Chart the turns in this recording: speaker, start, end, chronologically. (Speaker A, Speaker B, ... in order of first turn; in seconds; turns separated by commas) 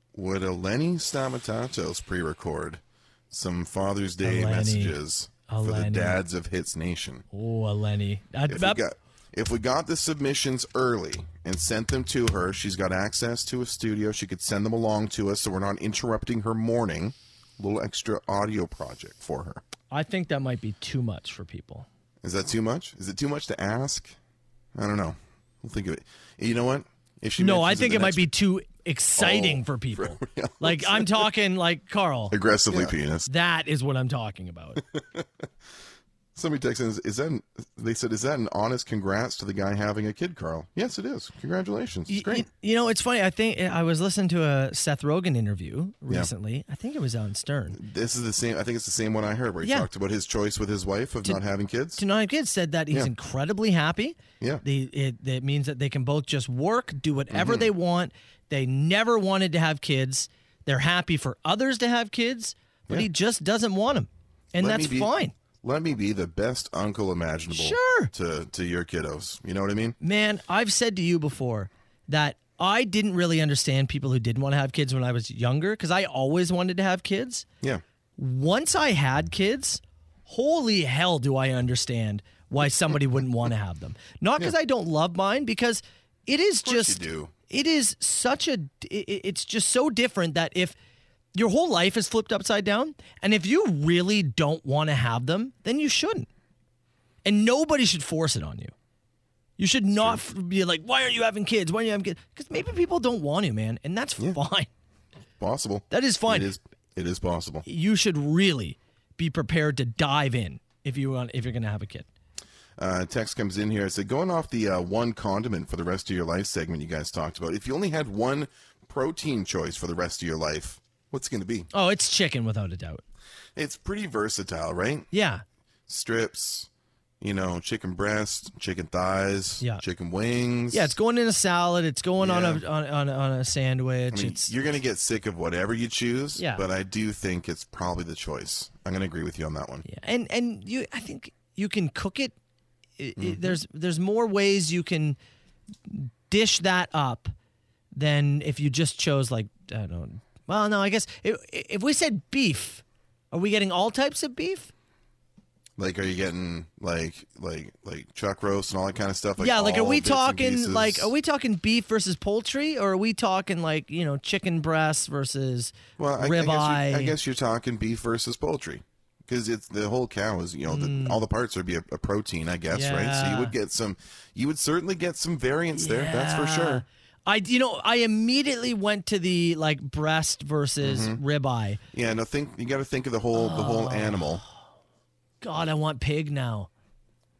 Speaker A: 0.1-7.2, Speaker B: 4.2-5.0, Speaker B: 5.5-6.2, Speaker B: 7.3-8.8, Speaker A: 8.5-19.6, Speaker B: 19.9-21.9, Speaker A: 22.2-24.2, Speaker A: 24.7-28.3, Speaker B: 27.4-34.8, Speaker A: 29.2-31.3, Speaker A: 32.3-33.3, Speaker A: 34.8-35.5, Speaker A: 36.4-42.5, Speaker B: 42.1-47.8, Speaker A: 47.7-52.0, Speaker B: 49.6-49.9, Speaker B: 52.0-65.3, Speaker A: 57.3-57.7, Speaker A: 64.6-70.0, Speaker B: 67.5-68.1, Speaker B: 70.0-77.5, Speaker B: 78.2-90.8, Speaker A: 86.6-87.3, Speaker B: 91.3-96.3, Speaker B: 97.2-98.7, Speaker B: 99.6-104.7, Speaker A: 99.9-100.2, Speaker A: 105.4-107.7, Speaker B: 105.9-106.5, Speaker B: 107.7-112.1, Speaker A: 112.8-121.7, Speaker B: 121.7-123.0, Speaker A: 123.6-125.1, Speaker B: 125.1-125.4, Speaker A: 125.9-126.7, Speaker A: 127.2-130.9, Speaker B: 130.7-134.5, Speaker A: 132.2-132.6, Speaker A: 134.1-139.8, Speaker B: 136.4-136.6, Speaker B: 139.8-142.3, Speaker B: 143.0-145.2, Speaker A: 143.2-143.6, Speaker B: 145.9-147.3, Speaker B: 147.9-154.7, Speaker A: 155.8-161.1, Speaker B: 159.4-167.2, Speaker A: 166.0-176.8, Speaker B: 170.7-171.2, Speaker B: 172.7-173.6, Speaker B: 175.8-181.8, Speaker A: 180.8-181.2, Speaker A: 181.9-184.4, Speaker B: 183.3-184.5, Speaker B: 185.4-186.7